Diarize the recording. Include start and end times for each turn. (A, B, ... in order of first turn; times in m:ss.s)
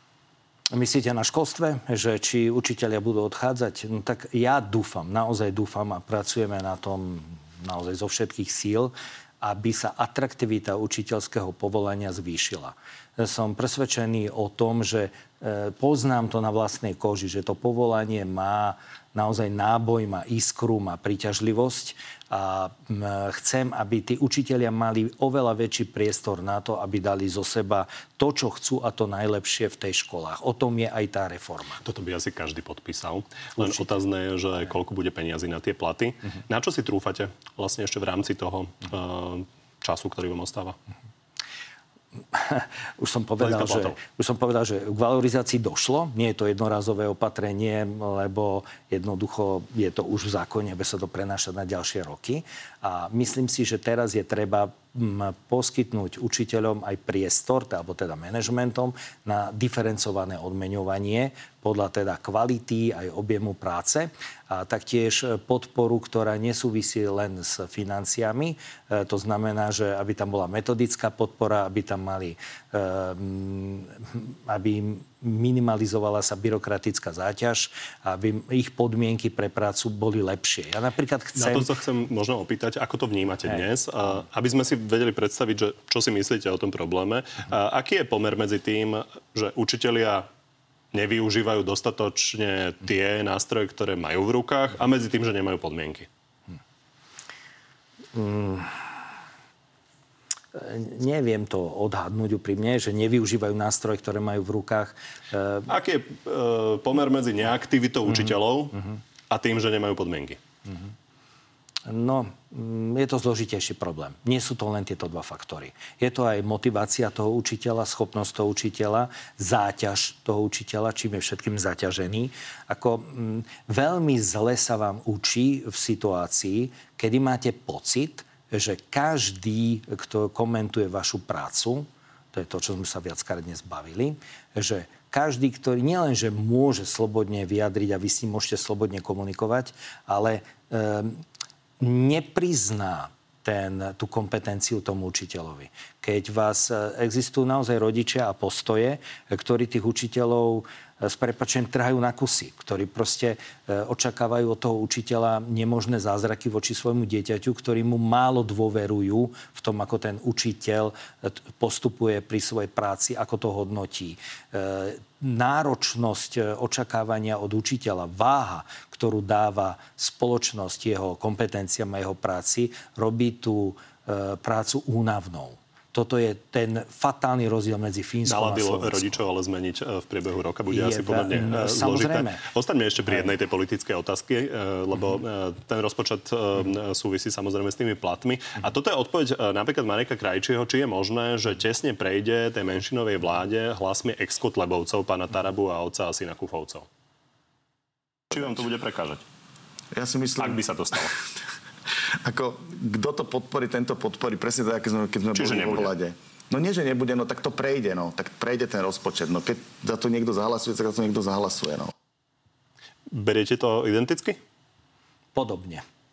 0:00.7-0:31.8 A
0:31.8-0:40.8 B
0:42.3-1:21.7 A
0:43.4-0:44.0 B
1:21.4-1:30.3 B
1:30.9-1:36.1 B
1:38.1-1:38.9 A
1:40.5-1:45.7 A
1:45.7-1:50.4 B
1:51.8-2:21.2 A
2:21.8-2:59.2 A
2:58.2-3:16.9 B
3:00.7-3:02.4 A
3:18.3-3:19.2 B
3:19.9-3:20.6 C
3:20.4-3:21.2 B
3:22.2-3:31.9 C
3:25.3-3:25.9 B
3:33.1-3:34.4 B
3:35.3-3:35.8 A